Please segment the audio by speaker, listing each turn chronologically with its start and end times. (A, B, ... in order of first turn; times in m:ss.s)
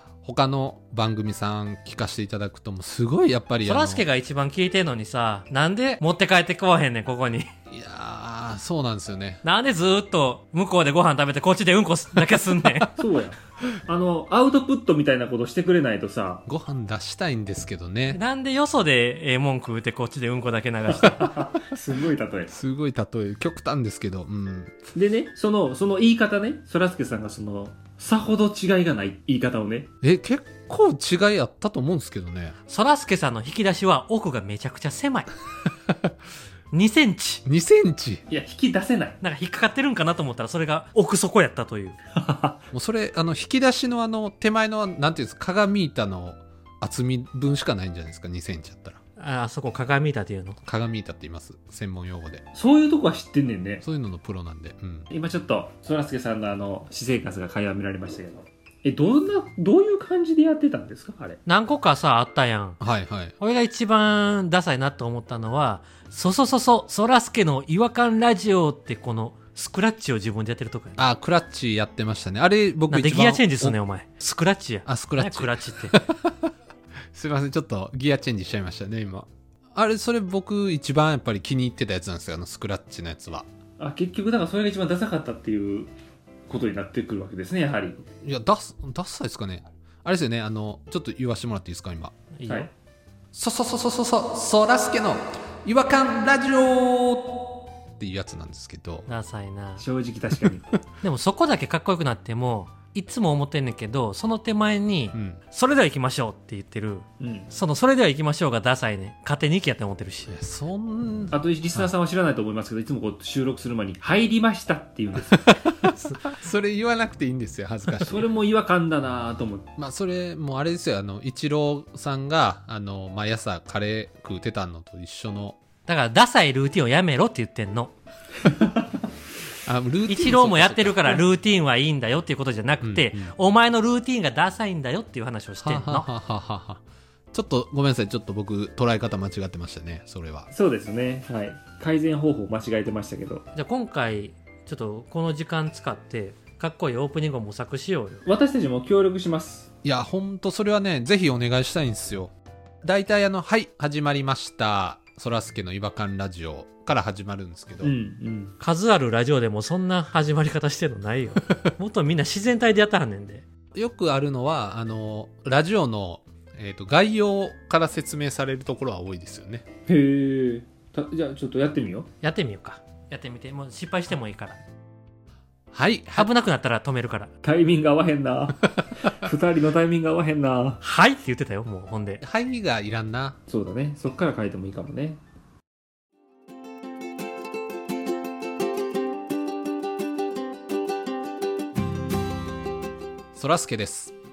0:00.2-0:04.0 A
0:03.6-0:07.5 B
0:07.7-0:09.4 A
0:09.4-0:12.9 B
0:13.0-0:16.4 C
0:16.5-0:18.2 A
0:18.1-0:21.4 B
0:20.9-0:22.6 C
0:22.5-0:24.8 A
0:25.0-0:29.9 C
0:30.0-0:32.6 A
0:32.7-0:35.3 B
0:36.7-0:37.4 B
0:37.5-0:38.2 A
0:38.3-0:39.2 C
0:39.2-0:42.0 B
0:42.2-0:42.6 C
0:42.7-0:49.0 A
0:49.2-0:50.6 B
0:50.6-0:52.4 A
0:52.6-0:53.8 C
0:53.8-0:55.1 A
0:55.1-1:01.4 C
1:01.5-1:02.8 B
1:02.8-1:03.4 A
1:03.4-1:11.0 B
1:11.0-1:13.8 A
1:12.9-1:16.0 B
1:14.9-1:16.4 A
1:17.1-1:23.5 A
1:23.8-1:25.9 C
1:26.5-1:28.0 C
1:28.2-1:32.1 A
1:32.3-1:32.7 B
1:33.3-1:37.5 A
1:38.0-1:39.1 A
1:39.1-1:39.8 B
1:39.8-1:40.7 C
1:41.0-1:50.3 B
1:45.1-1:45.4 A
1:47.2-1:47.5 C
1:50.3-1:51.9 A
1:51.3-1:55.4 C
1:55.4-1:58.3 A
1:58.0-1:59.7 C
1:59.8-2:05.6 A
2:05.9-2:07.9 B
2:09.7-2:11.2 A
2:10.1-2:16.1 B
2:12.8-2:13.3 A
2:15.6-2:20.5 A
2:20.5-2:23.4 C
2:23.6-2:28.2 B
2:28.3-2:29.7 C
2:29.8-2:37.9 A
2:37.8-2:38.6 C
2:38.6-2:43.4 B
2:43.7-2:49.7 A
2:49.9-2:52.1 C
2:52.2-2:54.6 B
2:55.7-2:56.3 A
2:56.1-2:57.3 B
2:57.4-3:00.8 C
3:00.8-3:02.2 B
3:02.2-3:03.4 A
3:03.5-3:05.2 C
3:13.3-3:14.2 A